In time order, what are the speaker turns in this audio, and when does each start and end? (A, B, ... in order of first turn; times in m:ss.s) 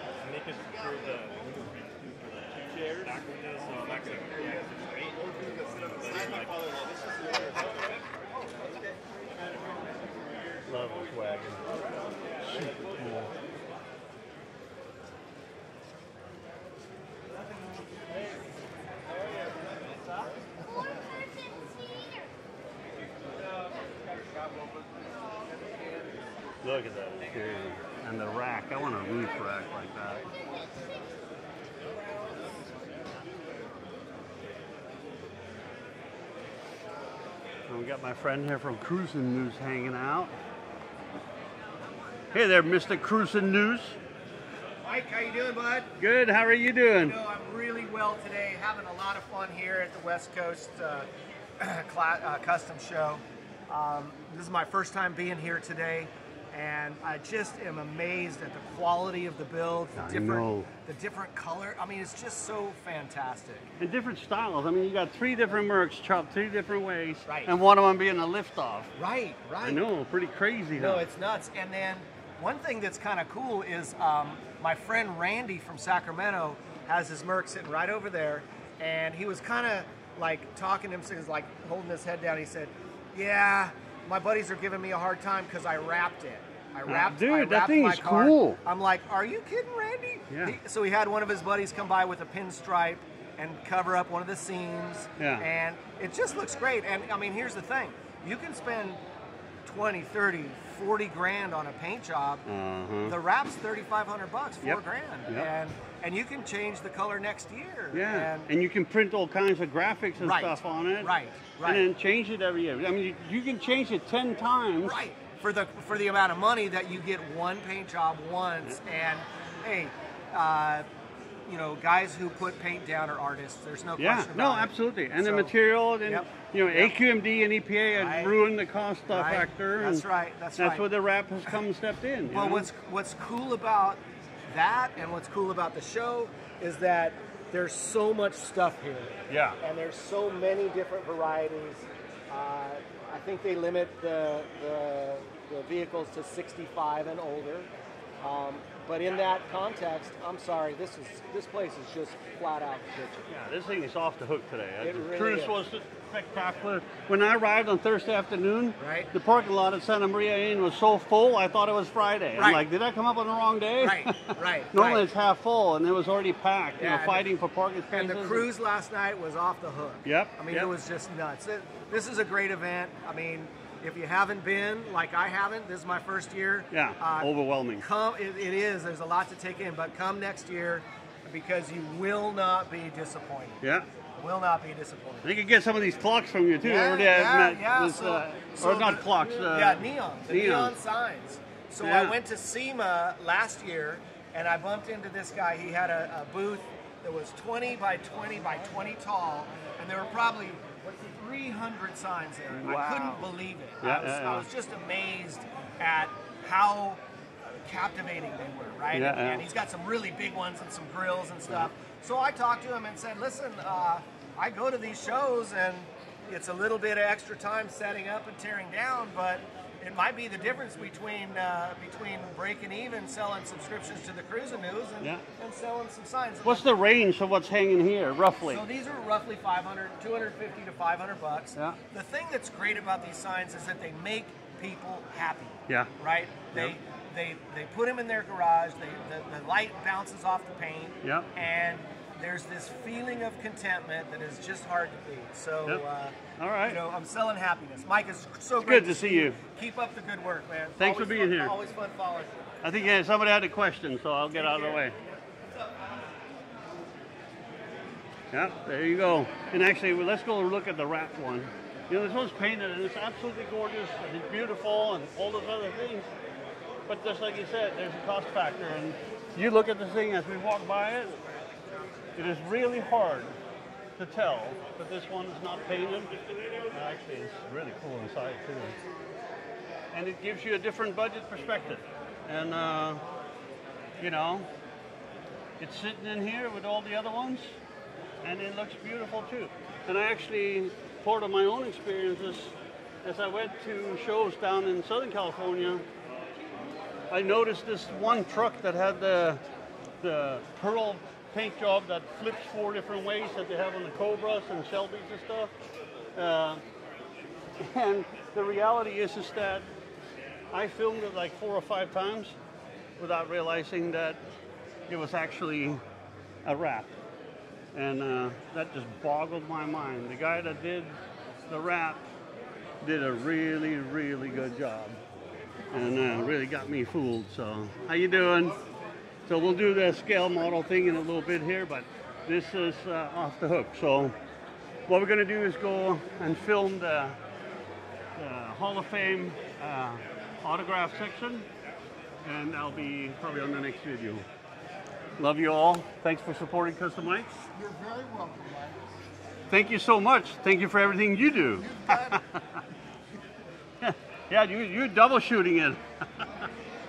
0:00.2-0:01.8 A
0:02.6-0:07.6 A
0:10.7-0:11.6 B
0:12.4-0:13.3 B
0:26.6-0:30.2 B
0:37.7-0:40.3 B
0:42.3-0:44.0 B
0:44.8-0:45.9 C
0:46.0-0:47.2 B
0:46.9-0:51.1 C
0:51.6-1:03.6 C
1:00.0-1:00.7 B
1:03.8-1:08.9 B
1:07.3-1:07.5 C
1:08.9-1:09.8 C
1:09.6-1:11.0 B
1:10.7-1:39.0 C
1:26.8-1:28.6 B
1:30.3-1:30.6 B
1:35.2-1:35.4 B
1:39.6-1:42.4 C
1:42.4-1:43.2 B
1:43.0-1:48.5 C
1:44.6-1:45.5 B
1:47.9-1:51.1 B
1:50.2-1:51.9 C
1:51.6-1:55.0 B
1:54.8-2:00.9 C
2:01.4-2:05.5 C
2:04.0-2:10.0 B
2:06.0-2:07.0 C
2:08.0-2:08.4 C
2:09.1-2:10.8 C
2:10.6-2:12.7 B
2:12.3-2:27.7 C
2:19.3-2:19.6 B
2:28.2-2:33.3 C
2:33.3-2:48.5 B
2:34.8-2:35.6 C
2:38.8-2:39.1 C
2:42.4-2:42.6 C
2:43.8-2:45.1 C
2:46.8-2:47.3 C
2:47.9-3:03.6 C
2:50.0-2:50.7 B
2:56.7-2:57.8 B
3:03.6-3:03.9 B
3:04.2-3:05.3 C
3:05.2-3:10.8 B
3:06.6-3:46.7 C
3:11.8-3:12.2 B
3:22.5-3:23.3 B
3:23.8-3:24.5 B
3:28.9-3:29.4 B
3:46.4-3:48.6 B
3:48.5-4:12.5 C
4:01.0-4:01.3 B
4:06.4-4:06.8 B
4:08.6-4:09.4 B
4:10.8-4:11.5 B
4:12.6-4:15.0 B
4:18.3-4:26.1 B
4:26.9-4:31.2 B
4:32.2-4:33.4 B
4:34.0-4:36.1 B
4:36.7-4:38.8 B
4:39.9-4:43.0 B
4:44.0-4:44.5 B
4:45.6-4:47.6 B
4:48.2-4:55.8 B
4:57.1-4:59.4 B
5:00.0-5:05.5 B
5:06.1-5:06.6 B
5:07.6-5:09.7 B
5:10.5-5:12.4 B
5:13.0-5:14.2 B
5:14.9-5:15.8 B
5:16.4-5:16.9 B
5:17.7-5:21.0 B
5:21.5-5:22.0 B
5:22.8-5:25.0 B
5:25.7-5:28.6 B
5:29.2-5:34.2 B
5:34.9-5:37.2 B
5:38.2-5:41.5 B
5:42.2-5:44.2 B
5:45.2-5:47.4 B
5:49.5-5:52.6 B
5:53.8-5:56.5 B